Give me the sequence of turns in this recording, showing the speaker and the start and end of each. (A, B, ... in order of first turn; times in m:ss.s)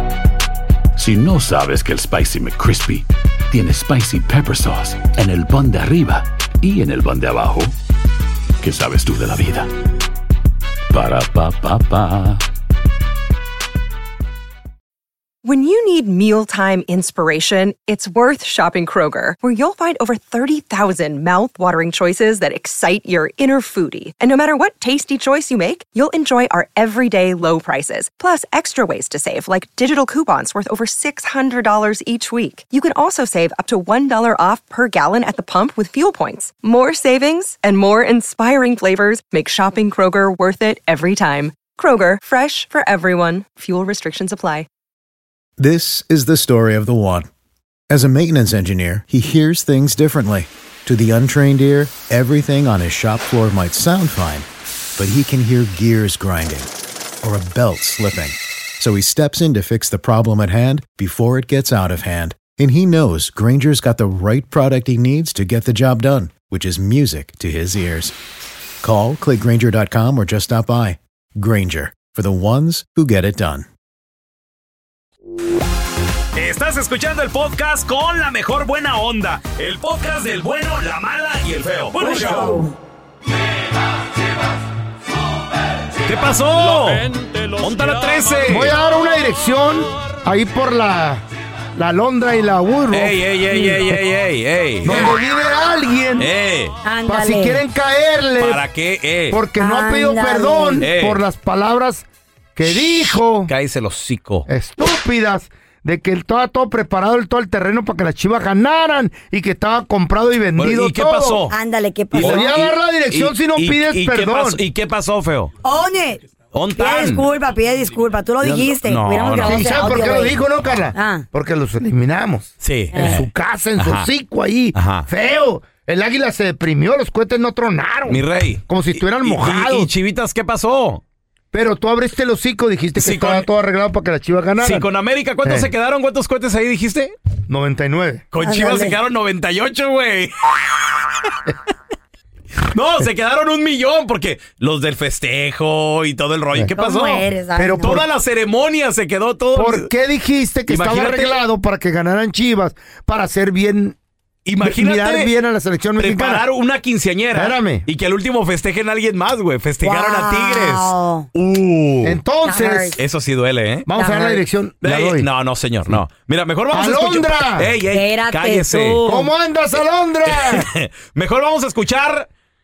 0:01.0-0:07.8 A
0:08.6-0:09.7 A
0:10.9-0:12.4 A
0:15.4-0:44.7 B
0:45.6-0:47.3 C
0:47.9-0:56.7 C
0:57.2-1:08.1 C
1:08.8-1:13.7 C
1:16.4-1:22.6 D
1:22.0-1:22.7 E
1:26.0-1:28.8 D
1:28.5-1:31.2 F
1:31.8-1:34.0 F
1:32.9-1:35.1 D
1:34.8-1:36.3 F
1:36.2-1:36.8 D
1:36.8-1:37.6 E
1:37.1-1:38.6 F
1:38.4-1:39.4 D
1:39.3-1:43.5 F
1:39.6-1:40.8 E
1:40.8-1:41.2 D
1:43.5-1:44.5 D
1:44.5-1:51.4 F
1:50.6-1:51.6 D
1:51.5-1:52.6 E
1:52.2-1:55.5 D
1:52.2-1:54.6 F
1:55.6-1:56.2 E
1:56.5-1:57.3 D
1:56.8-2:00.4 E
1:58.4-1:59.8 D
1:59.4-2:09.9 F
2:01.0-2:01.2 E
2:02.6-2:04.1 D
2:02.9-2:03.2 E
2:04.8-2:05.1 D
2:08.1-2:11.0 D
2:11.5-2:14.9 F
2:13.0-2:13.5 D
2:14.6-2:17.1 D
2:17.5-2:18.2 F
2:18.3-2:20.3 D
2:18.4-2:19.0 E
2:22.7-2:27.3 D
2:26.8-2:28.0 E
2:27.6-2:28.0 F
2:27.8-2:29.9 D
2:29.6-2:34.0 F
2:30.7-2:31.4 D
2:34.4-2:35.3 D
2:34.6-2:36.4 F
2:36.0-2:42.2 D
2:37.4-2:37.8 F
2:39.8-2:41.3 E
2:42.0-2:43.0 F
2:42.4-2:43.0 E
2:43.0-2:43.9 D
2:43.9-2:45.3 F
2:44.0-2:44.4 E
2:44.8-2:49.0 D
2:46.7-2:47.7 F
2:47.9-2:49.3 E
2:49.0-2:50.7 F
2:50.3-2:52.3 D